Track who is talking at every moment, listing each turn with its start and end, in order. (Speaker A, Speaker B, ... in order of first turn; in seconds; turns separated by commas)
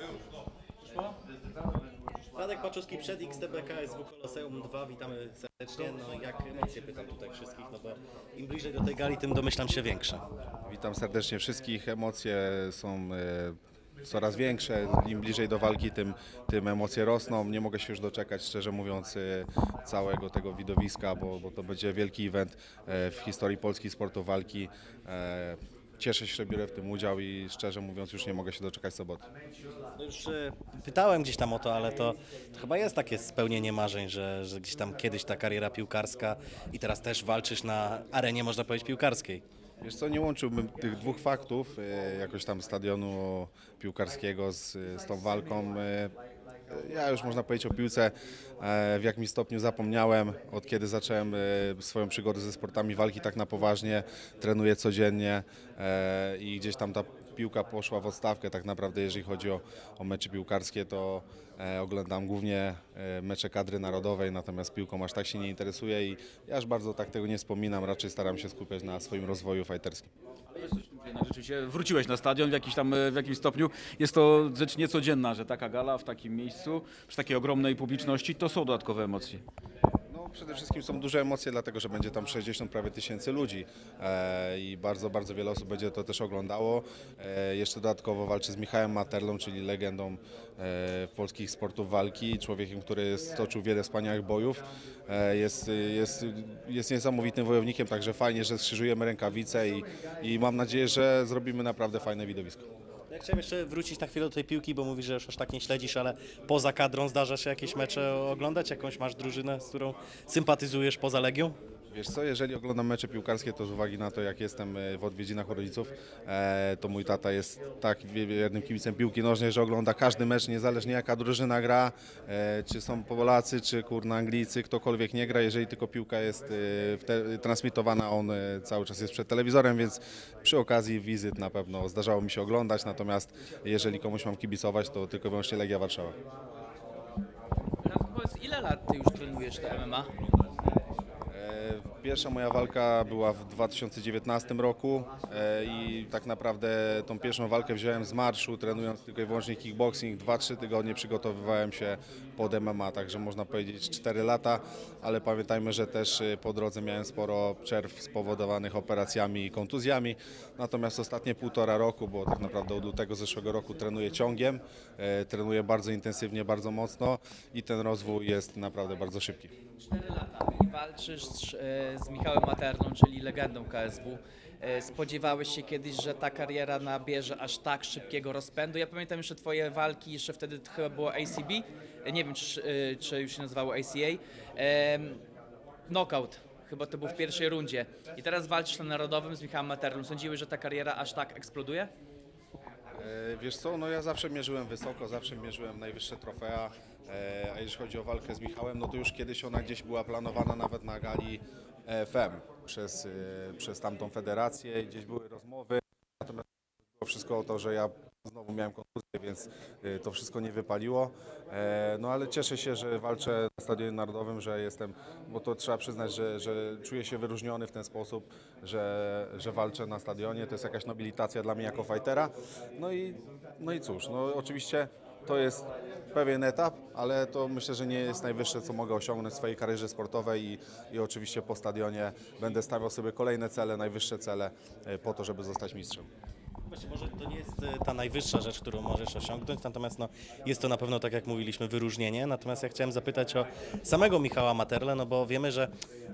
Speaker A: 2.4-10.2, Speaker B: 10.7-29.2, Speaker A: 30.0-39.4, Speaker B: 39.8-46.1, Speaker B: 46.7-70.1, Speaker C: 70.5-79.4, Speaker B: 80.1-102.7, Speaker A: 103.1-111.6, Speaker B: 111.9-136.2, Speaker D: 137.8-140.1, Speaker B: 141.3-169.5, Speaker D: 169.8-185.2, Speaker D: 185.9-191.9, Speaker B: 193.0-206.4, Speaker B: 207.0-236.1, Speaker A: 236.7-245.7